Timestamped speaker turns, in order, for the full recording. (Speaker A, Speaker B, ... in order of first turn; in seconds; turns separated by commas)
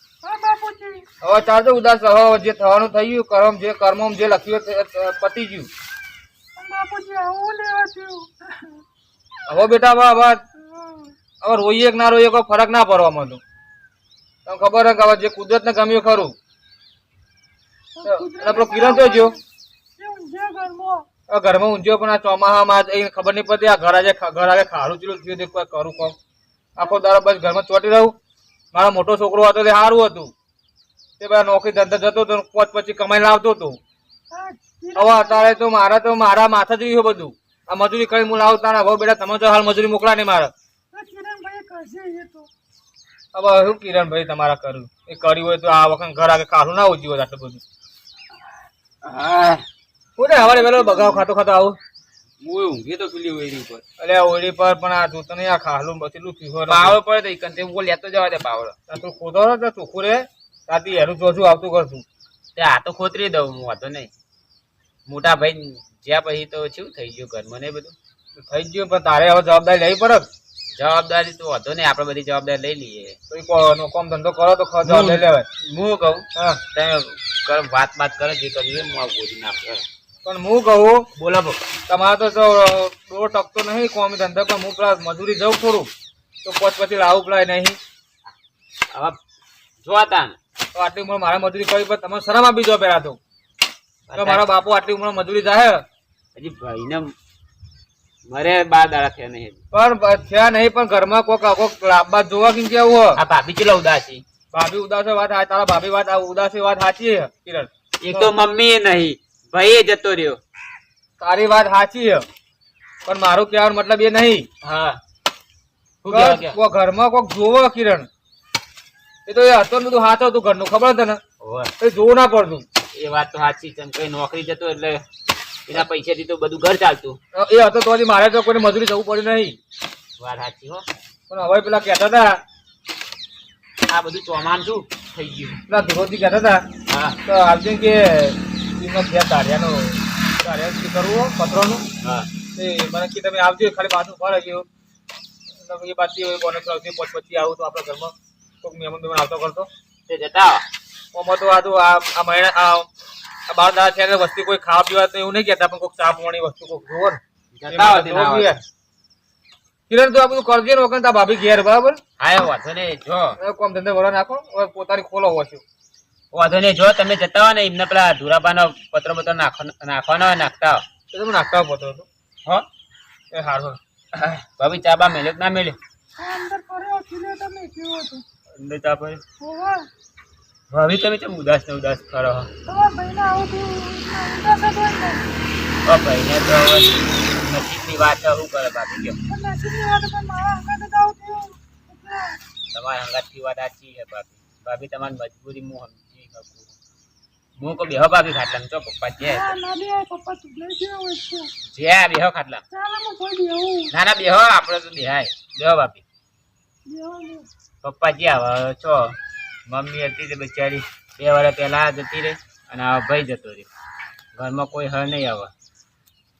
Speaker A: 0.2-1.1, Speaker B: 1.2-5.7, Speaker A: 6.6-8.8, Speaker B: 9.5-10.4, Speaker A: 10.6-11.2, Speaker B: 11.4-13.4, Speaker B: 14.5-16.4, Speaker A: 17.9-19.4, Speaker B: 18.1-19.4, Speaker A: 20.0-21.1, Speaker B: 21.3-26.2, Speaker B: 26.8-28.1, Speaker B: 28.7-30.3, Speaker B: 31.2-33.8, Speaker A: 34.3-35.6, Speaker B: 35.0-40.5, Speaker A: 40.9-42.5, Speaker B: 43.3-47.6, Speaker C: 49.0-49.6, Speaker B: 50.2-51.8, Speaker A: 50.4-51.2, Speaker C: 52.4-53.8, Speaker B: 54.0-57.0, Speaker C: 56.7-58.8, Speaker B: 58.9-62.0, Speaker C: 62.5-64.1, Speaker C: 65.1-68.0, Speaker B: 68.4-70.3, Speaker C: 70.8-73.2, Speaker B: 73.3-75.5, Speaker C: 74.8-79.8, Speaker B: 76.3-76.6, Speaker B: 80.2-81.1, Speaker C: 81.2-81.6, Speaker B: 81.9-85.9, Speaker B: 86.4-87.8, Speaker C: 88.9-89.2, Speaker C: 89.8-90.4, Speaker B: 90.8-93.2, Speaker C: 94.1-94.4, Speaker B: 94.2-95.8, Speaker C: 96.3-97.1, Speaker C: 98.3-99.6, Speaker B: 99.7-103.2, Speaker C: 103.2-104.2, Speaker B: 104.5-108.3, Speaker C: 108.0-110.4, Speaker B: 111.2-112.2, Speaker B: 113.1-114.5, Speaker C: 114.6-115.0, Speaker C: 116.0-116.6, Speaker B: 116.1-118.1, Speaker B: 119.3-121.2, Speaker C: 121.4-121.7, Speaker B: 121.8-122.7, Speaker C: 123.0-125.0, Speaker C: 125.7-127.2, Speaker B: 127.3-129.6, Speaker C: 130.2-130.9, Speaker B: 131.3-132.4, Speaker C: 133.9-135.6, Speaker B: 135.7-136.7, Speaker C: 136.9-137.2, Speaker B: 137.2-141.8, Speaker C: 142.0-142.3, Speaker B: 142.6-144.7, Speaker B: 145.6-149.7, Speaker C: 150.1-150.7, Speaker B: 151.1-152.9, Speaker B: 153.5-158.6, Speaker C: 157.5-158.5, Speaker B: 159.9-162.0, Speaker C: 162.2-163.4, Speaker B: 163.4-165.6, Speaker C: 166.3-170.8, Speaker B: 171.1-172.1, Speaker B: 173.3-173.8, Speaker C: 174.2-175.8, Speaker A: 176.2-178.2, Speaker C: 178.6-179.2, Speaker A: 179.4-179.9, Speaker C: 180.7-182.5, Speaker A: 182.7-185.2, Speaker C: 185.8-189.2, Speaker A: 189.3-192.4, Speaker C: 192.7-196.7, Speaker C: 197.6-199.5, Speaker A: 199.2-201.5, Speaker C: 201.7-202.6, Speaker A: 202.7-203.9, Speaker C: 203.9-206.0, Speaker A: 206.9-207.5, Speaker C: 207.8-209.2, Speaker C: 209.7-213.7, Speaker C: 214.3-215.5